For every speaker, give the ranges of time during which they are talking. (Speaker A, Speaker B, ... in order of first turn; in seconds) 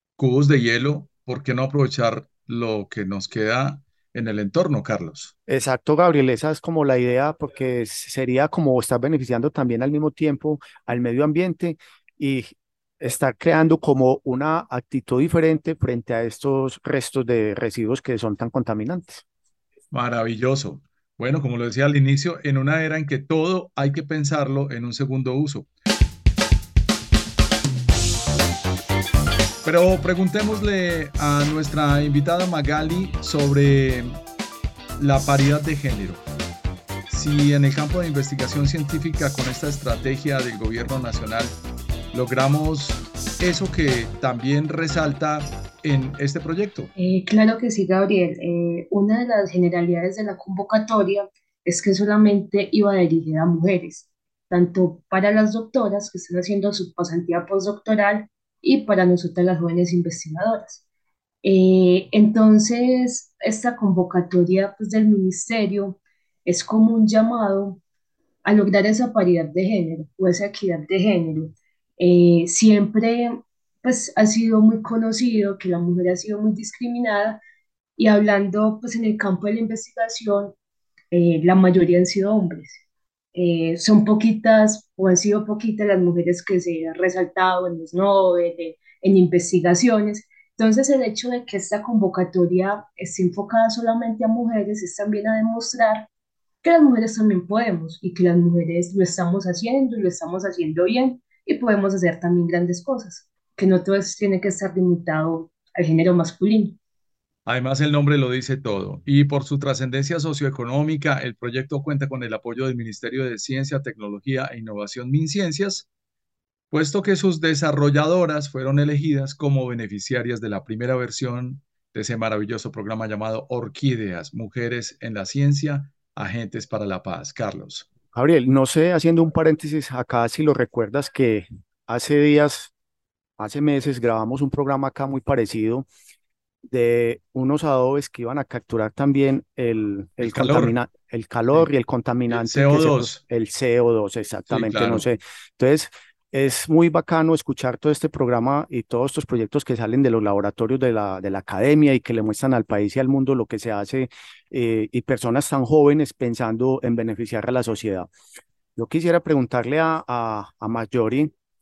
Speaker A: 0.2-5.3, 19.9-25.7, 29.6-34.2, 35.0-36.2, 37.1-41.6, 42.1-46.9, 107.5-115.9, 116.7-127.9, 140.2-140.8, 142.3-143.2, 144.5-145.1
Speaker B: 5.5-19.2, 128.1-132.7, 133.4-135.9, 136.7-158.1, 158.8-161.3
Speaker C: 47.0-60.8, 61.4-67.8, 68.5-77.4, 78.0-80.5, 81.1-82.8, 83.3-96.1, 96.6-106.8